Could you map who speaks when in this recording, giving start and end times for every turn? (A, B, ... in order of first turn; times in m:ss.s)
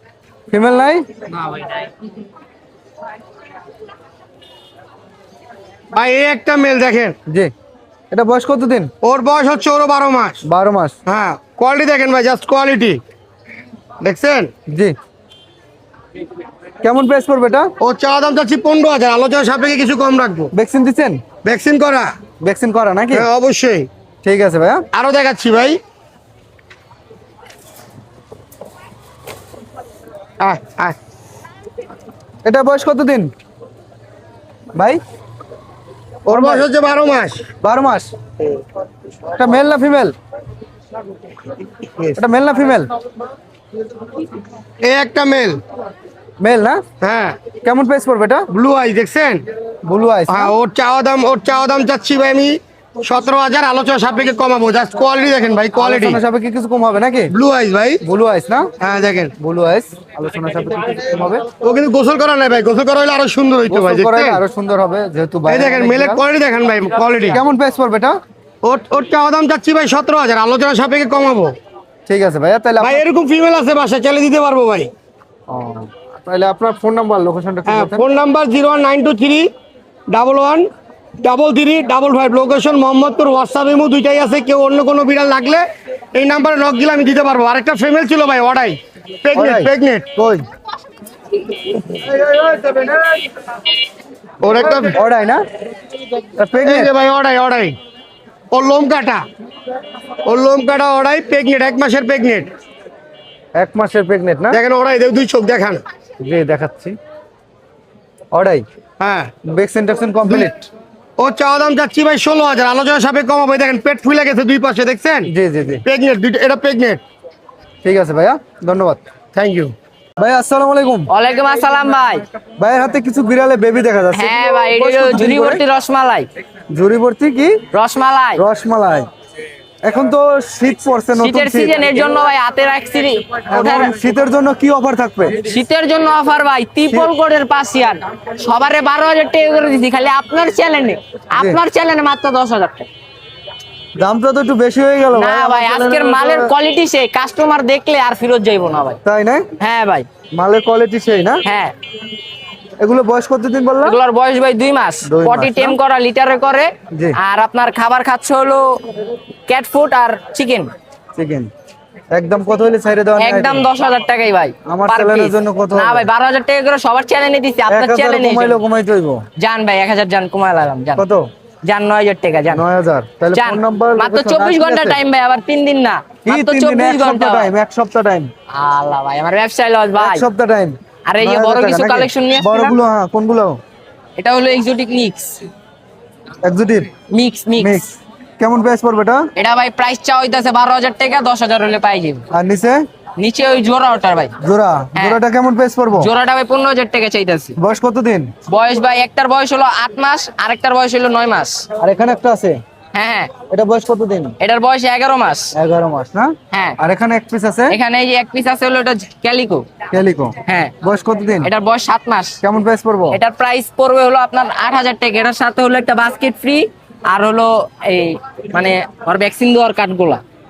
0:00.5-0:01.0 A
0:05.9-0:07.2 B
0:07.3-0:07.5 A
0:08.1-0:08.9 A
0:09.0-0:10.4 B
0:10.4-0:11.0 A
0:11.0-0:13.0 B
0:14.0-0:14.5 B
0:14.7-0:15.0 A
0:16.8-0:17.7 A
0:17.8-0:20.5 B
0:20.5-0:21.2 A
0:21.4-0:22.1 B
0:22.4-0:23.3 A
0:23.1-0:23.9 B
0:24.2-0:24.8 A
0:24.9-0:25.8 B
0:30.4-0:31.0 B
0:32.4-0:33.3 A
0:34.7-0:35.0 A
0:36.3-0:37.5 B
0:36.3-0:36.6 A
0:37.6-0:38.1 A
0:39.3-0:40.1 A
0:42.2-0:42.9 A
0:44.8-0:45.6 B
0:46.4-0:46.8 A
0:47.0-0:47.4 B
0:47.6-0:48.5 A
0:48.5-0:49.4 B
0:49.8-0:50.5 A
0:50.3-0:56.2 B
0:55.8-0:57.3 A
0:57.3-0:58.0 B
0:58.0-0:58.7 A
0:58.8-0:59.3 B
0:59.4-1:01.4 A
1:01.6-1:04.4 B
1:03.7-1:06.2 A
1:05.5-1:07.4 B
1:07.3-1:08.2 A
1:08.6-1:11.6 B
1:12.1-1:13.0 A
1:12.8-1:14.9 B
1:15.5-1:18.0 A
1:17.7-1:19.5 B
1:20.1-1:20.7 B
1:21.2-1:30.1 B
1:29.3-1:30.4 A
1:31.9-1:33.3 A
1:34.4-1:35.0 B
1:34.7-1:35.4 A
1:36.4-1:36.9 A
1:36.6-1:37.8 B
1:38.5-1:39.2 B
1:40.2-1:42.5 B
1:43.6-1:44.6 A
1:44.5-1:45.8 B
1:46.2-1:47.0 A
1:48.3-1:48.6 A
1:49.0-1:49.3 B
1:49.4-1:50.7 A
1:51.2-1:55.3 B
1:55.3-1:55.8 A
1:55.8-1:57.0 B
1:57.8-1:59.0 A
1:59.3-1:59.7 B
2:00.2-2:01.1 A
2:01.1-2:02.2 C
2:02.6-2:05.6 A
2:04.1-2:06.3 C
2:06.7-2:07.6 A
2:07.7-2:08.4 C
2:08.4-2:09.1 A
2:09.8-2:11.9 A
2:11.2-2:13.9 C
2:13.5-2:15.3 A
2:15.4-2:22.9 C
2:24.0-2:26.5 A
2:25.1-2:29.0 C
2:29.0-2:29.4 A
2:29.6-2:30.1 C
2:30.3-2:31.4 A
2:31.4-2:31.7 C
2:32.8-2:34.0 A
2:33.8-2:38.8 C
2:35.0-2:35.8 A
2:39.5-2:40.7 C
2:41.1-2:41.5 A
2:42.1-2:43.6 A
2:43.2-2:48.6 C
2:44.7-2:46.1 A
2:47.7-2:49.2 A
2:49.4-2:51.0 C
2:51.0-2:51.3 A
2:51.6-2:52.6 C
2:52.5-2:55.0 A
2:53.3-2:57.5 C
2:56.2-2:58.3 A
2:58.5-3:00.2 C
3:00.0-3:03.6 A
3:01.0-3:02.7 C
3:04.2-3:05.4 C
3:06.4-3:06.9 A
3:07.1-3:07.8 C
3:07.6-3:09.2 A
3:09.4-3:12.2 C
3:12.3-3:12.8 A
3:13.2-3:14.3 C
3:14.4-3:16.1 A
3:14.9-3:15.2 C
3:16.0-3:17.5 C
3:17.6-3:18.3 A
3:18.5-3:21.6 C
3:21.8-3:22.6 A
3:22.9-3:23.3 C
3:23.5-3:24.3 A
3:24.4-3:25.5 C
3:25.5-3:27.8 A
3:26.5-3:26.8 C
3:27.7-3:29.7 C
3:29.9-3:31.5 A
3:30.4-3:30.7 C
3:31.4-3:32.4 C
3:32.4-3:33.2 A
3:33.1-3:40.2 C